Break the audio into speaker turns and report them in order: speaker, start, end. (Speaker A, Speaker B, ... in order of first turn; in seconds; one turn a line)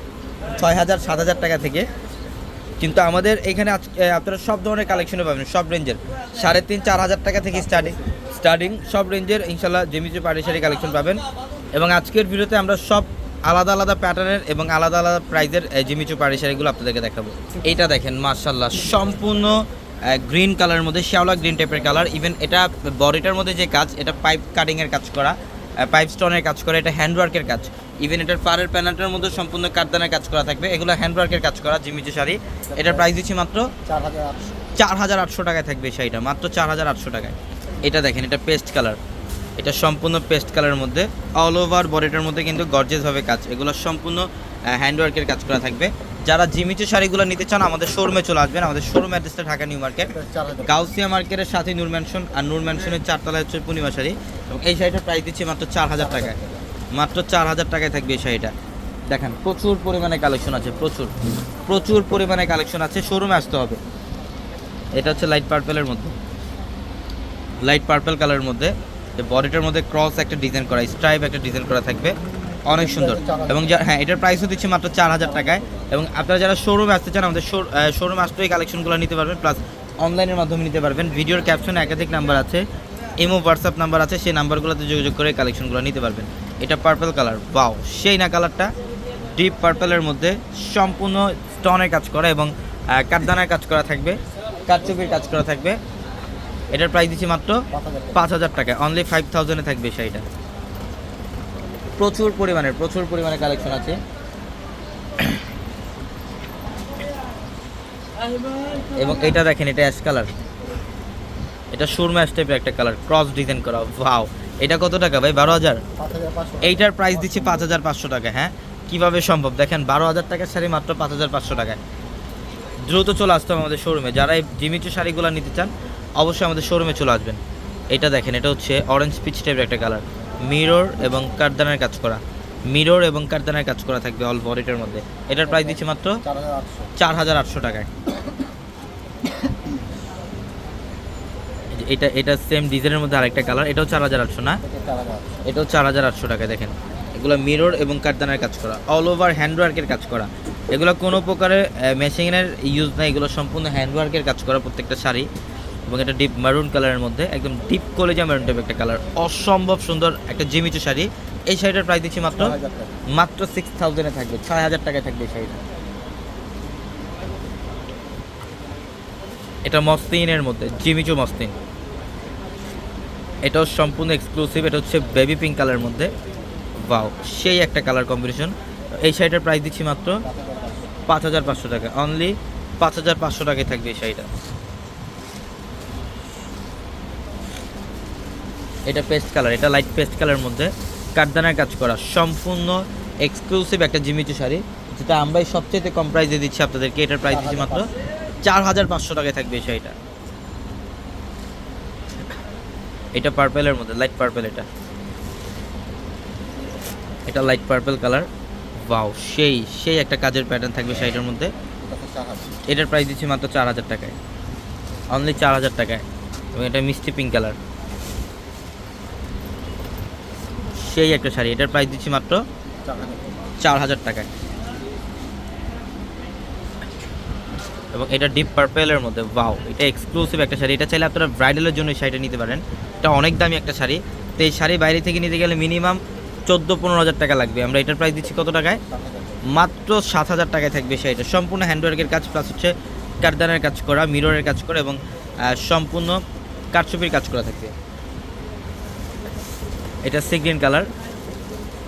Speaker A: 0.5-1.9
Speaker A: 2.8-11.2
Speaker A: 11.7-33.7
Speaker B: 33.9-34.4
Speaker A: 34.8-39.0
Speaker A: 39.6-50.1
Speaker B: 50.1-50.7
Speaker A: 50.6-56.4
Speaker B: 56.3-56.6
Speaker A: 56.9-58.5
Speaker A: 59.1-61.1
Speaker A: 61.6-63.8
Speaker A: 65.0-66.1
Speaker A: 67.6-72.1
Speaker A: 72.7-82.6
Speaker B: 73.2-73.5
Speaker A: 83.2-88.7
Speaker A: 89.3-95.8
Speaker A: 96.7-100.2
Speaker B: 97.7-98.1
Speaker A: 102.0-104.0
Speaker A: 108.9-110.3
Speaker A: 111.7-115.8
Speaker B: 116.0-116.7
Speaker A: 116.6-121.8
Speaker A: 122.9-127.4
Speaker A: 127.9-136.2
Speaker B: 136.2-136.9
Speaker A: 137.0-137.9
Speaker A: 141.8-144.6
Speaker B: 144.6-145.3
Speaker A: 145.4-155.3
Speaker A: 155.9-162.6
Speaker B: 162.4-162.9
Speaker A: 163.1-165.6
Speaker A: 169.6-171.5
Speaker A: 173.4-176.1
Speaker A: 176.8-180.2
Speaker B: 180.3-180.8
Speaker A: 181.1-184.3
Speaker A: 188.9-197.9
Speaker A: 198.4-199.9
Speaker A: 203.1-204.7
Speaker A: 207.3-208.3
Speaker A: 208.9-211.5
Speaker B: 211.9-212.5
Speaker A: 212.7-214.2
Speaker A: 215.1-216.0
Speaker A: 216.6-217.6
Speaker A: 220.8-222.4
Speaker B: 222.9-223.3
Speaker A: 223.6-224.3
Speaker A: 227.9-238.8
Speaker B: 238.9-239.4
Speaker A: 239.5-246.2
Speaker A: 246.7-247.7
Speaker A: 250.0-250.8